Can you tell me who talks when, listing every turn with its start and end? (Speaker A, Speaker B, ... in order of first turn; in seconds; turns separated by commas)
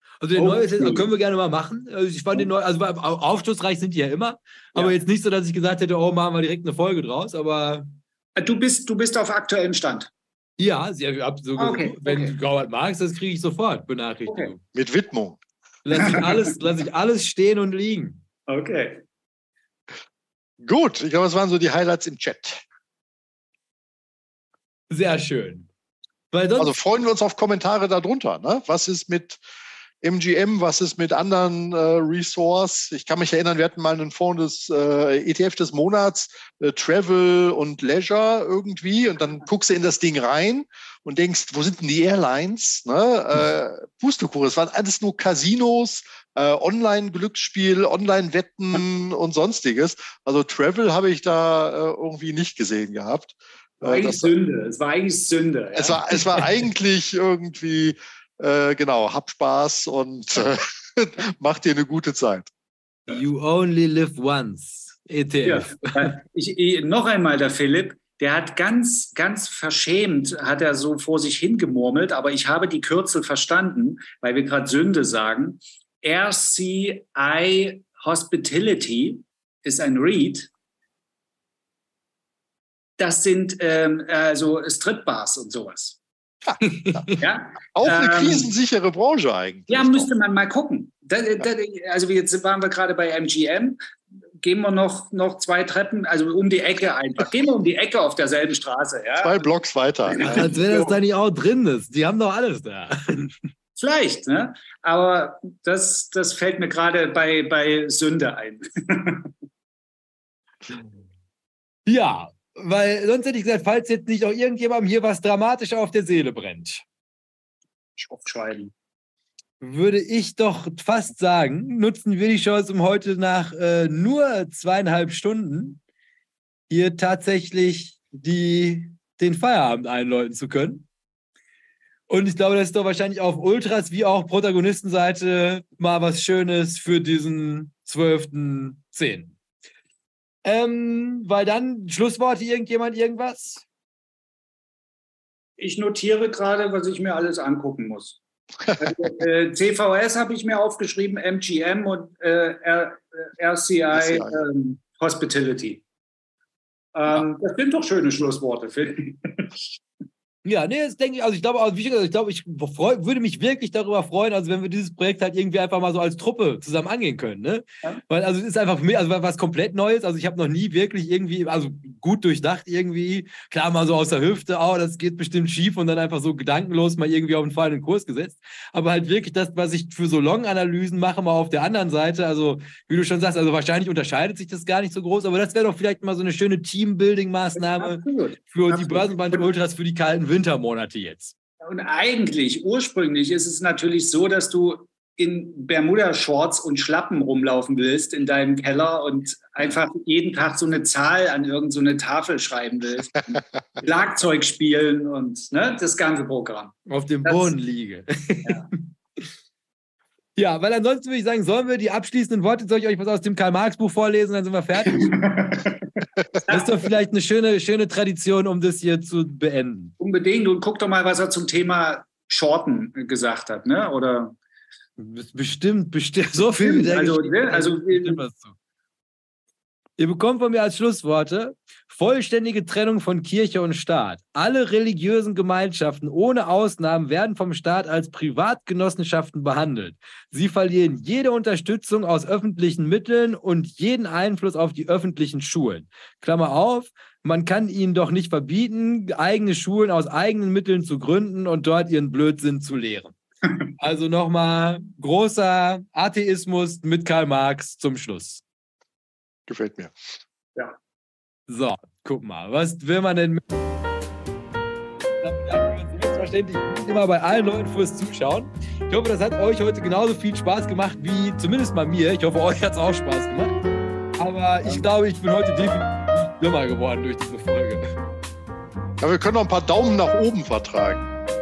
Speaker A: 0.2-7.9, Speaker B: 0.3-1.0, Speaker B: 8.3-10.1, Speaker A: 10.6-14.6, Speaker B: 11.6-12.3, Speaker B: 14.3-14.5, Speaker C: 14.7-15.4, Speaker A: 15.8-18.2, Speaker B: 15.9-16.5, Speaker B: 18.5-19.0, Speaker C: 20.6-22.6, Speaker A: 24.9-25.7, Speaker A: 26.3-26.7, Speaker C: 26.6-29.4, Speaker C: 30.0-54.3, Speaker B: 53.8-56.4, Speaker C: 55.8-62.5, Speaker A: 63.1-66.1, Speaker B: 65.4-80.5, Speaker B: 83.0-86.0, Speaker C: 86.5-87.1, Speaker A: 86.6-87.2, Speaker B: 87.2-88.5, Speaker C: 87.7-90.1, Speaker B: 89.7-93.8, Speaker B: 94.4-99.5, Speaker C: 99.2-100.5, Speaker B: 100.1-101.0, Speaker A: 100.2-103.3, Speaker B: 103.8-109.3, Speaker A: 111.8-116.8, Speaker B: 118.0-118.7, Speaker A: 119.6-125.8, Speaker A: 126.7-130.9, Speaker A: 132.1-139.3, Speaker A: 140.4-143.6, Speaker B: 145.6-148.2, Speaker B: 148.8-155.8, Speaker C: 153.9-154.4, Speaker B: 156.9-159.6, Speaker A: 160.4-191.3, Speaker B: 187.6-189.4, Speaker B: 191.6-206.7, Speaker A: 206.9-209.2, Speaker B: 207.2-207.5, Speaker A: 210.4-215.2, Speaker B: 214.8-216.7, Speaker A: 216.5-219.9, Speaker B: 220.0-224.3, Speaker A: 225.0-228.6, Speaker B: 226.6-228.2, Speaker A: 230.0-253.1, Speaker A: 253.8-258.4, Speaker C: 259.5-259.9, Speaker A: 261.5-263.4, Speaker A: 265.2-273.6, Speaker A: 274.2-277.9, Speaker C: 279.0-281.0